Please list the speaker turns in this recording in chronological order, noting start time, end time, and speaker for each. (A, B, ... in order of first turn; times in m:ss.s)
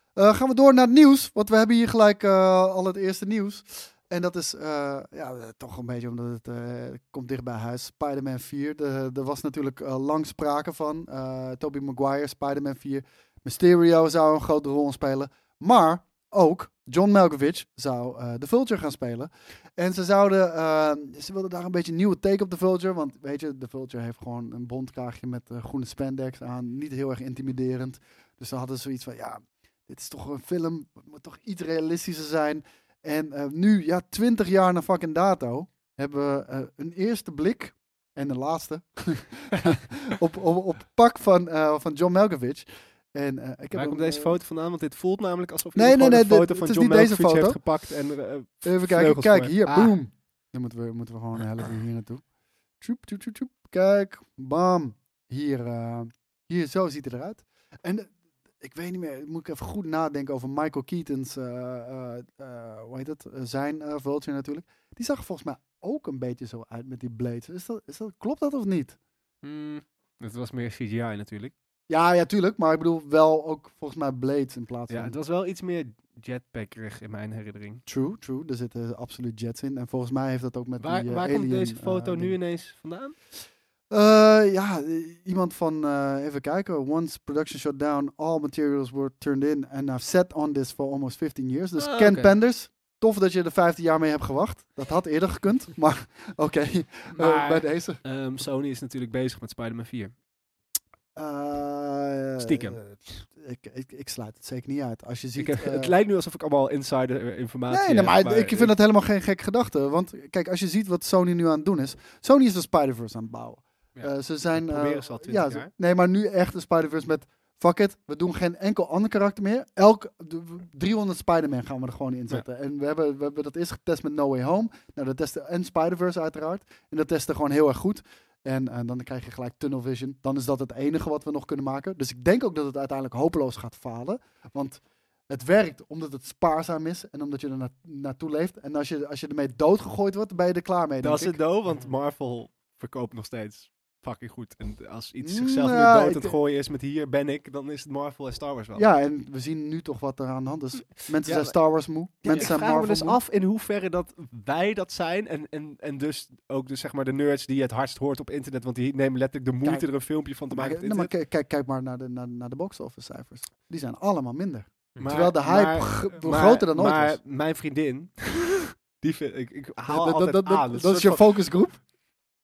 0:00.1-0:44.3 A
0:43.7-0:49.9 B
0:45.7-0:47.6 A
0:48.6-0:52.2 A
0:52.8-1:09.0 A
1:09.4-1:11.5 B
1:11.9-1:15.2 A
1:14.9-1:17.8 B
1:17.8-1:22.4 A
1:20.8-1:23.1 B
1:23.9-1:38.0 A
1:31.8-1:32.3 B
1:37.1-1:40.1 B
1:41.1-1:45.9 A
1:42.4-1:42.8 B
1:45.4-1:48.7 B
1:47.7-2:21.4 A
1:54.0-1:55.7 B
2:21.0-2:28.8 B
2:25.2-2:26.3 A
2:28.7-2:33.2 A
2:31.2-2:31.6 B
2:32.2-2:41.1 B
2:40.5-2:47.2 A
2:45.0-2:51.2 B
2:49.8-2:51.8 A